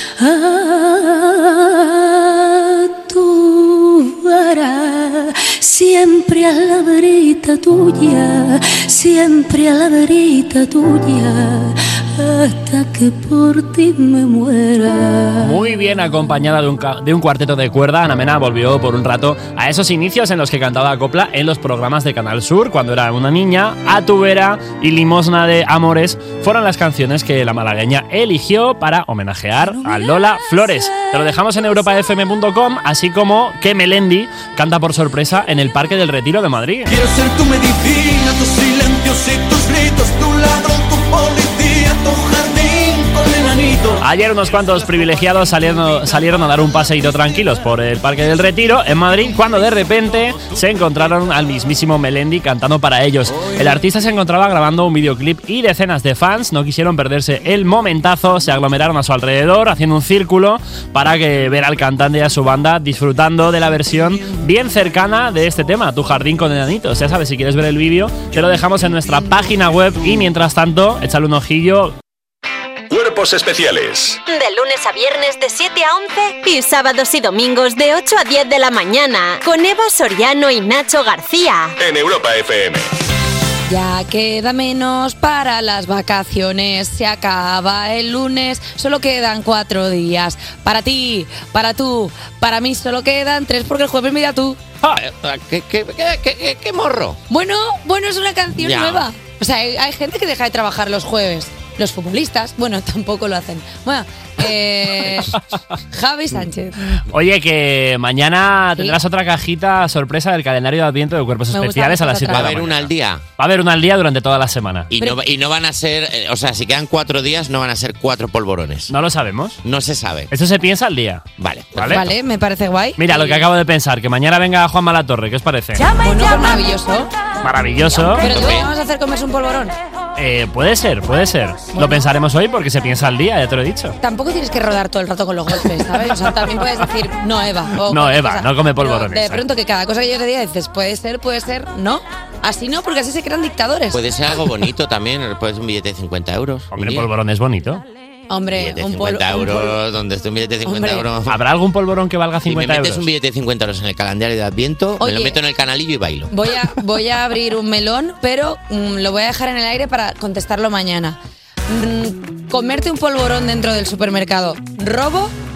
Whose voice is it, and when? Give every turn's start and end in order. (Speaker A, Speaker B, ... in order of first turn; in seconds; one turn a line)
Speaker A: 0.2-15.6
Speaker B: 15.4-36.9
Speaker A: 29.9-30.4
Speaker C: 36.9-44.0
Speaker B: 44.0-72.0
Speaker D: 72.9-74.2
Speaker E: 74.3-81.7
Speaker D: 81.8-82.9
Speaker F: 83.7-94.6
Speaker G: 94.9-97.2
Speaker F: 97.3-105.4
Speaker G: 98.6-99.0
Speaker F: 105.9-107.0
Speaker B: 107.1-114.9
Speaker F: 111.5-112.6
Speaker G: 112.3-113.2
Speaker G: 114.9-118.9
Speaker B: 118.9-119.6
Speaker G: 119.6-120.3
Speaker B: 120.3-122.1
Speaker G: 121.4-122.0
Speaker F: 121.8-123.4
Speaker B: 123.0-125.9
Speaker A: 125.9-126.4
Speaker F: 125.9-127.1
Speaker B: 127.4-128.3
Speaker F: 127.9-129.7
Speaker G: 128.2-128.7
Speaker B: 130.2-133.9
Speaker F: 131.7-132.0
Speaker F: 134.0-144.0
Speaker B: 137.9-139.4
Speaker G: 143.9-147.1
Speaker B: 146.7-147.8
Speaker F: 148.3-149.8
Speaker G: 148.5-151.4
Speaker F: 150.7-151.1
Speaker B: 151.3-153.1
Speaker G: 152.4-156.3
Speaker F: 155.0-155.4
Speaker F: 156.3-165.3